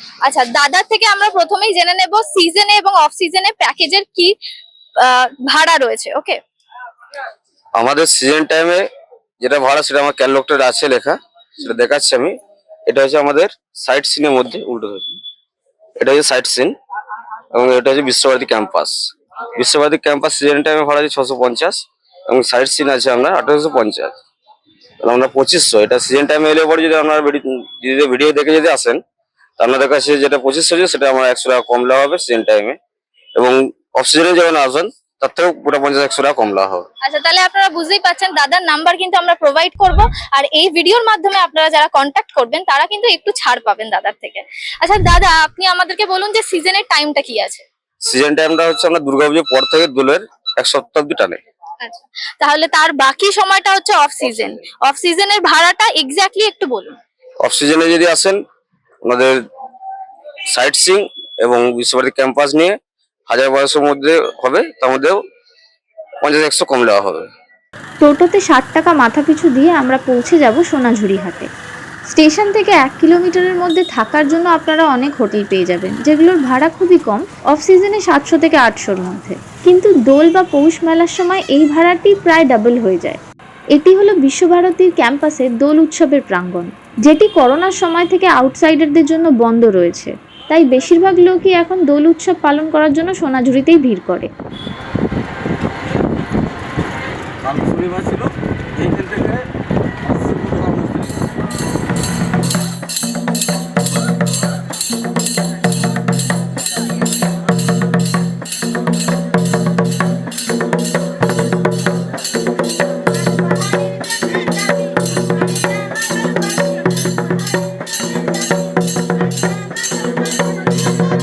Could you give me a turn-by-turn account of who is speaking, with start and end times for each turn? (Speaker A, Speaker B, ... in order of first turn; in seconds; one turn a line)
Speaker A: 0.2-4.3
Speaker A: 5.0-6.4
Speaker B: 7.7-8.9
Speaker B: 9.4-15.2
Speaker B: 16.0-16.8
Speaker B: 17.5-19.0
Speaker B: 19.5-24.1
Speaker B: 25.0-29.0
Speaker B: 29.6-32.8
Speaker B: 33.4-36.9
Speaker A: 37.0-47.6
Speaker B: 48.0-51.4
Speaker A: 51.8-57.0
Speaker B: 57.4-58.4
Speaker B: 59.0-59.4
Speaker B: 60.5-65.2
Speaker B: 66.2-67.3
Speaker C: 68.0-71.5
Speaker C: 72.1-83.2
Speaker C: 83.7-94.3
Speaker D: 97.4-99.4
Speaker D: 100.0-101.1